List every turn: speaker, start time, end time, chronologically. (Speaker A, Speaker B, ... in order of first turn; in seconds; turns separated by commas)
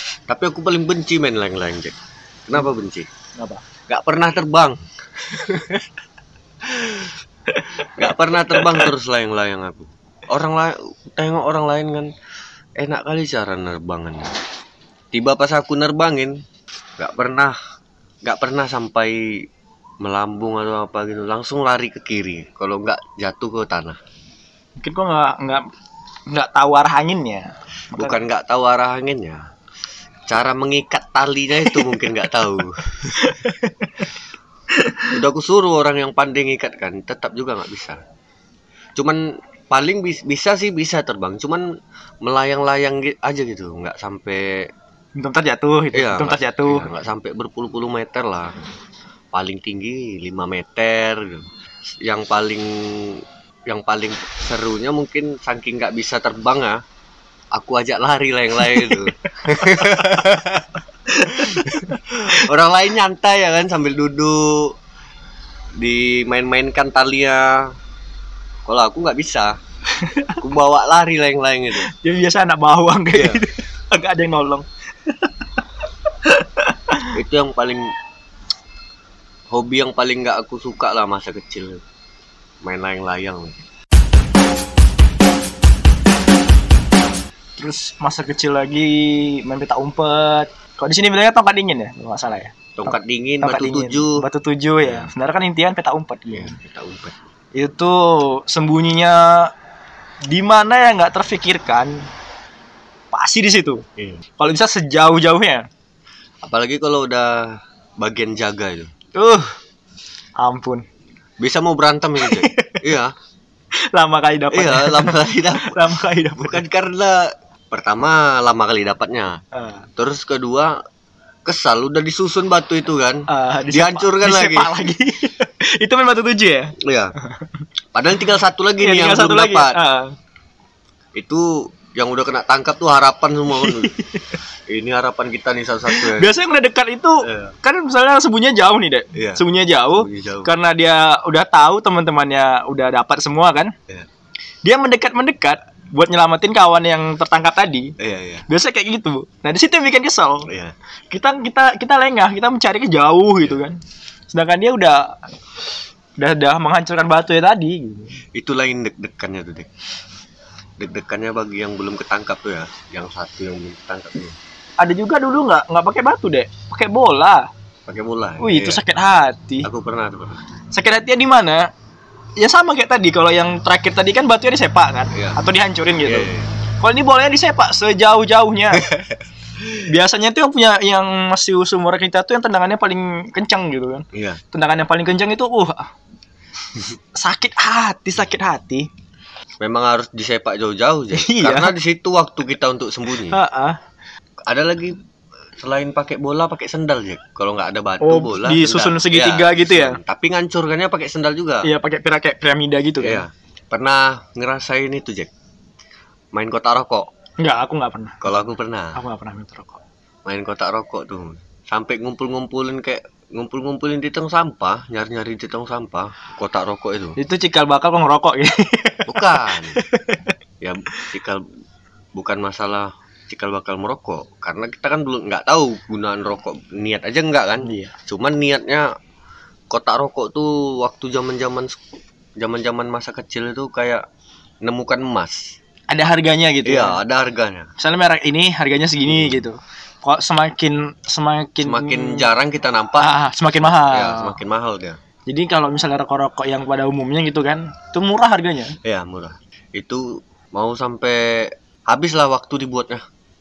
Speaker A: 0.3-3.1, Speaker B: 3.4-3.6, Speaker A: 3.9-5.9, Speaker A: 6.6-7.1, Speaker B: 7.5-8.0, Speaker A: 7.9-12.1, Speaker B: 8.6-8.9, Speaker A: 12.8-14.3, Speaker A: 15.1-16.4, Speaker A: 17.0-17.6, Speaker A: 18.2-19.5, Speaker A: 20.0-24.0, Speaker B: 24.8-25.6, Speaker B: 26.3-28.2, Speaker A: 28.0-29.4, Speaker A: 30.3-33.3, Speaker B: 33.2-33.9, Speaker B: 34.7-35.1, Speaker A: 35.1-38.0, Speaker A: 39.0-41.7, Speaker A: 42.2-44.7, Speaker B: 45.1-46.9, Speaker A: 45.9-48.6, Speaker A: 49.3-51.5, Speaker A: 52.0-56.8, Speaker A: 57.5-60.7, Speaker B: 58.7-59.0, Speaker B: 59.6-60.3, Speaker B: 61.1-62.5, Speaker A: 61.3-64.8, Speaker A: 65.8-67.8, Speaker A: 68.6-69.6, Speaker B: 69.9-70.4, Speaker A: 70.4-71.9, Speaker B: 71.8-75.3, Speaker A: 73.1-73.4, Speaker B: 76.2-77.1, Speaker A: 77.1-77.9, Speaker A: 79.5-81.8, Speaker A: 82.6-83.6, Speaker B: 87.6-96.6, Speaker A: 92.8-94.2, Speaker A: 94.8-95.1, Speaker A: 96.3-97.1, Speaker B: 97.5-99.5, Speaker B: 100.3-102.1, Speaker B: 103.1-103.8, Speaker A: 104.0-104.2, Speaker B: 104.4-105.7, Speaker A: 106.4-108.9, Speaker B: 109.1-109.5, Speaker B: 110.4-110.8, Speaker A: 111.4-113.1, Speaker B: 112.2-112.8, Speaker B: 113.9-116.6, Speaker A: 114.5-119.4, Speaker B: 119.5-119.9, Speaker A: 120.0-120.8, Speaker A: 121.5-124.7, Speaker B: 123.3-127.6, Speaker A: 126.8-127.1, Speaker A: 127.9-129.8, Speaker B: 128.8-130.1, Speaker A: 131.1-133.9, Speaker B: 133.6-134.3, Speaker A: 134.7-136.4, Speaker B: 135.9-143.7, Speaker A: 137.2-137.5, Speaker A: 139.1-140.5, Speaker B: 144.6-147.9, Speaker A: 148.0-148.4, Speaker B: 148.5-150.5, Speaker A: 150.5-150.7, Speaker B: 151.1-153.8, Speaker B: 154.3-155.2, Speaker B: 156.2-158.2, Speaker A: 158.3-159.7, Speaker A: 160.8-164.4, Speaker B: 164.8-167.5, Speaker A: 167.9-168.8, Speaker B: 168.4-169.7, Speaker A: 169.6-170.4, Speaker B: 170.7-171.7, Speaker B: 172.4-178.9, Speaker A: 175.1-175.4, Speaker A: 176.0-176.5, Speaker A: 178.7-179.8, Speaker B: 179.8-185.9, Speaker A: 184.1-184.4, Speaker B: 187.1-188.9, Speaker A: 189.6-193.4, Speaker B: 191.1-191.8, Speaker B: 193.3-193.8, Speaker A: 194.5-195.0, Speaker A: 195.6-201.7, Speaker B: 198.0-200.0, Speaker B: 201.6-203.2, Speaker A: 203.0-205.3, Speaker A: 206.3-207.1, Speaker B: 207.4-208.3, Speaker A: 208.2-209.0, Speaker B: 208.9-209.8, Speaker A: 210.2-217.2, Speaker B: 217.2-220.3, Speaker A: 219.1-219.8, Speaker A: 220.6-221.4, Speaker A: 222.1-228.9, Speaker B: 227.6-227.9, Speaker A: 229.7-231.8, Speaker A: 232.4-234.0, Speaker A: 234.6-235.6, Speaker B: 235.9-237.0, Speaker A: 236.6-237.7, Speaker B: 237.8-242.3, Speaker A: 239.1-239.4, Speaker A: 241.6-245.0, Speaker B: 243.0-244.4, Speaker B: 245.3-248.8, Speaker A: 248.8-253.0